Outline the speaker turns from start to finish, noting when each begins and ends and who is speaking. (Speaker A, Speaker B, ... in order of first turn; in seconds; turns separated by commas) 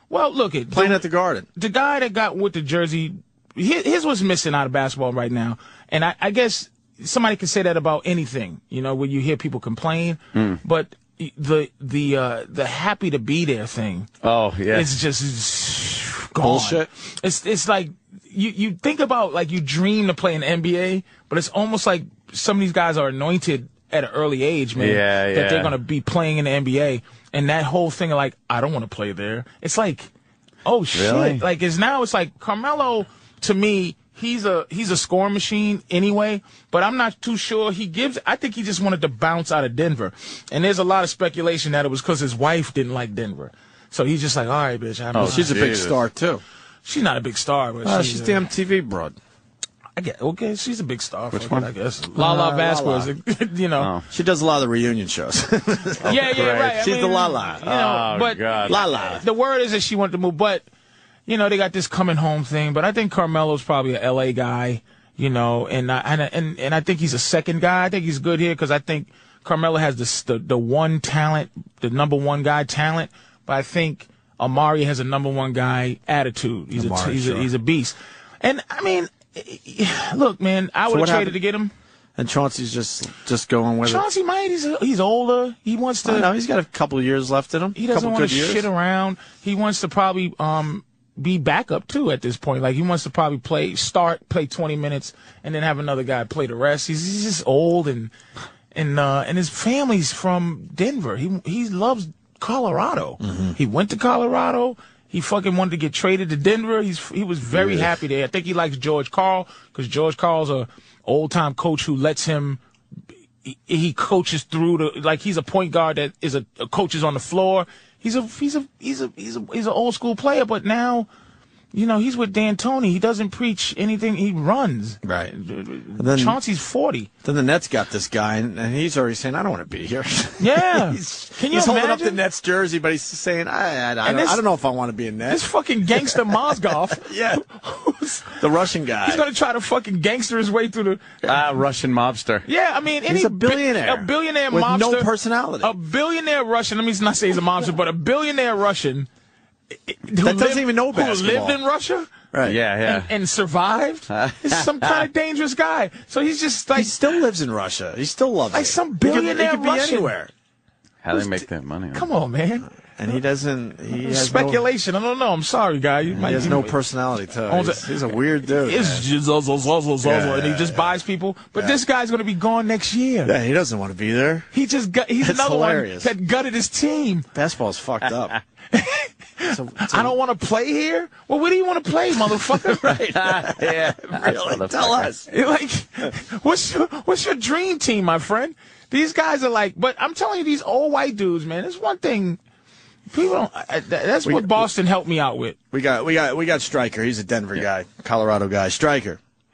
Speaker A: 0.1-14.1, Speaker B: 0.7-1.5, Speaker C: 10.3-10.6, Speaker C: 14.2-14.9, Speaker A: 14.7-30.1, Speaker B: 16.4-16.9, Speaker C: 24.8-25.7, Speaker A: 30.6-45.5, Speaker C: 30.9-31.4, Speaker C: 45.1-46.0, Speaker B: 45.2-46.4, Speaker A: 46.9-48.4, Speaker B: 47.8-49.2, Speaker A: 50.0-53.9, Speaker C: 51.3-51.7, Speaker B: 52.2-53.1, Speaker C: 53.8-54.1, Speaker B: 54.1-56.2, Speaker A: 56.0-60.6, Speaker C: 56.0-56.8, Speaker B: 56.8-57.7, Speaker C: 57.6-59.2, Speaker B: 58.7-59.2, Speaker A: 61.3-81.7, Speaker B: 76.7-77.5, Speaker B: 80.9-81.4, Speaker B: 82.2-84.0, Speaker A: 83.8-86.3, Speaker B: 86.0-88.7, Speaker A: 87.8-98.1, Speaker A: 98.7-112.6, Speaker B: 103.2-103.6, Speaker B: 107.5-107.9, Speaker A: 113.5-121.1, Speaker A: 121.7-127.1, Speaker B: 125.0-125.3, Speaker B: 126.0-126.4, Speaker B: 127.2-135.4, Speaker A: 130.4-132.2, Speaker A: 134.0-134.4, Speaker A: 135.3-138.4, Speaker B: 136.0-137.4, Speaker B: 138.4-139.2, Speaker A: 139.0-141.1, Speaker C: 141.2-142.4, Speaker A: 142.4-145.1, Speaker B: 143.1-145.7, Speaker A: 145.6-149.1, Speaker A: 149.9-152.1, Speaker B: 150.2-151.6, Speaker B: 152.3-152.6, Speaker C: 152.4-153.1, Speaker A: 152.8-156.9, Speaker C: 154.1-155.1, Speaker B: 156.8-160.3, Speaker A: 158.5-160.1, Speaker C: 161.0-162.1, Speaker A: 161.1-162.7, Speaker B: 163.0-164.6, Speaker A: 164.0-166.8, Speaker B: 166.1-169.1, Speaker A: 167.5-173.3, Speaker B: 170.0-170.9, Speaker B: 173.2-174.5, Speaker A: 174.5-177.3, Speaker B: 175.2-176.1, Speaker B: 177.3-178.4, Speaker A: 178.7-183.4, Speaker B: 179.5-180.2, Speaker C: 183.1-185.1, Speaker B: 184.1-185.3, Speaker A: 185.3-192.4, Speaker A: 193.1-195.6, Speaker B: 194.2-194.7, Speaker B: 195.7-199.2